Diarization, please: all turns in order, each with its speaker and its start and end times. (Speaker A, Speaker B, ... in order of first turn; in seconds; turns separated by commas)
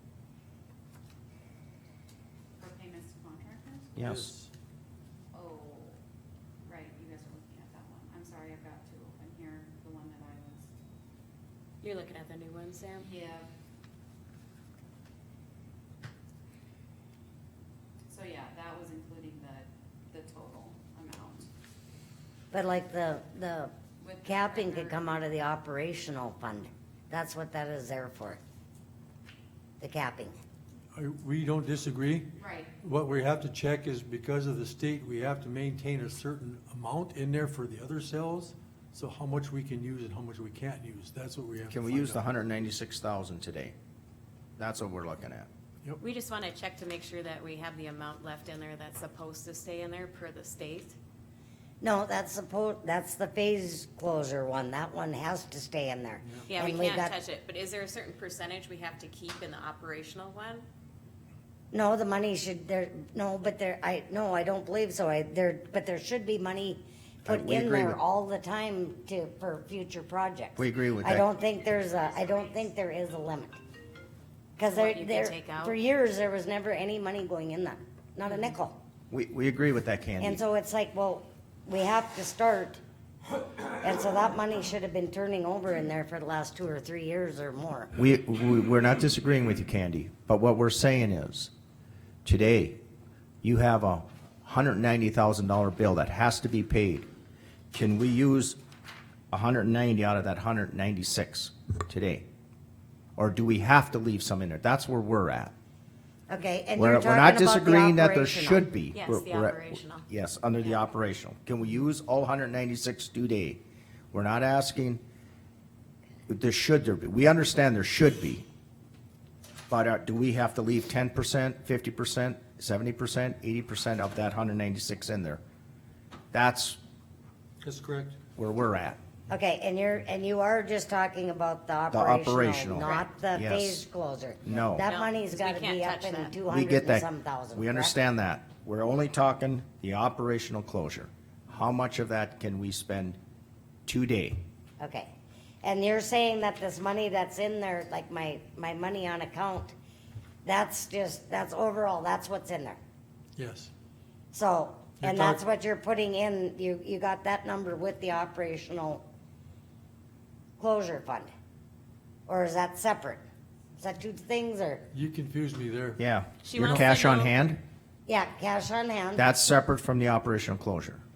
Speaker A: 2.6-3.9, Speaker B: 4.0-4.3, Speaker C: 4.0-4.5, Speaker A: 5.3-6.0, Speaker A: 6.6-10.7, Speaker D: 11.8-13.1, Speaker A: 13.0-13.5, Speaker A: 18.1-21.5, Speaker E: 22.5-23.7, Speaker A: 24.0-25.1, Speaker E: 24.2-28.4, Speaker E: 29.8-30.4, Speaker C: 30.9-42.2, Speaker A: 32.4-32.7, Speaker B: 41.7-43.7, Speaker B: 44.6-45.5, Speaker D: 46.0-51.0, Speaker E: 51.8-57.1, Speaker D: 56.5-60.6, Speaker E: 61.7-73.6, Speaker B: 67.2-68.0, Speaker B: 70.6-71.2, Speaker A: 71.6-72.7, Speaker E: 74.6-78.8, Speaker D: 74.6-75.8, Speaker B: 79.1-80.4, Speaker E: 80.2-82.8, Speaker E: 83.8-87.9, Speaker B: 88.0-91.5, Speaker B: 92.2-92.8, Speaker B: 93.4-97.0, Speaker B: 97.7-98.6, Speaker B: 99.3-102.2, Speaker B: 103.2-105.5, Speaker E: 106.3-108.7, Speaker B: 106.8-113.6, Speaker D: 108.9-110.1, Speaker B: 114.1-115.0, Speaker B: 116.3-118.4, Speaker B: 119.7-125.4, Speaker B: 126.3-126.8, Speaker C: 127.6-128.2, Speaker B: 128.4-129.0, Speaker E: 129.3-138.0, Speaker B: 131.9-133.8, Speaker B: 134.4-134.8, Speaker D: 134.8-136.4, Speaker B: 136.5-143.2, Speaker B: 143.8-144.4, Speaker E: 144.8-145.1, Speaker E: 145.6-149.7, Speaker E: 150.4-152.8, Speaker C: 153.3-153.7, Speaker E: 154.3-159.0, Speaker C: 155.0-155.4, Speaker E: 160.6-161.3, Speaker E: 162.3-163.2, Speaker E: 163.8-164.8, Speaker C: 164.9-166.0, Speaker B: 166.0-167.6, Speaker D: 166.4-167.4, Speaker E: 168.1-169.3, Speaker B: 169.2-171.0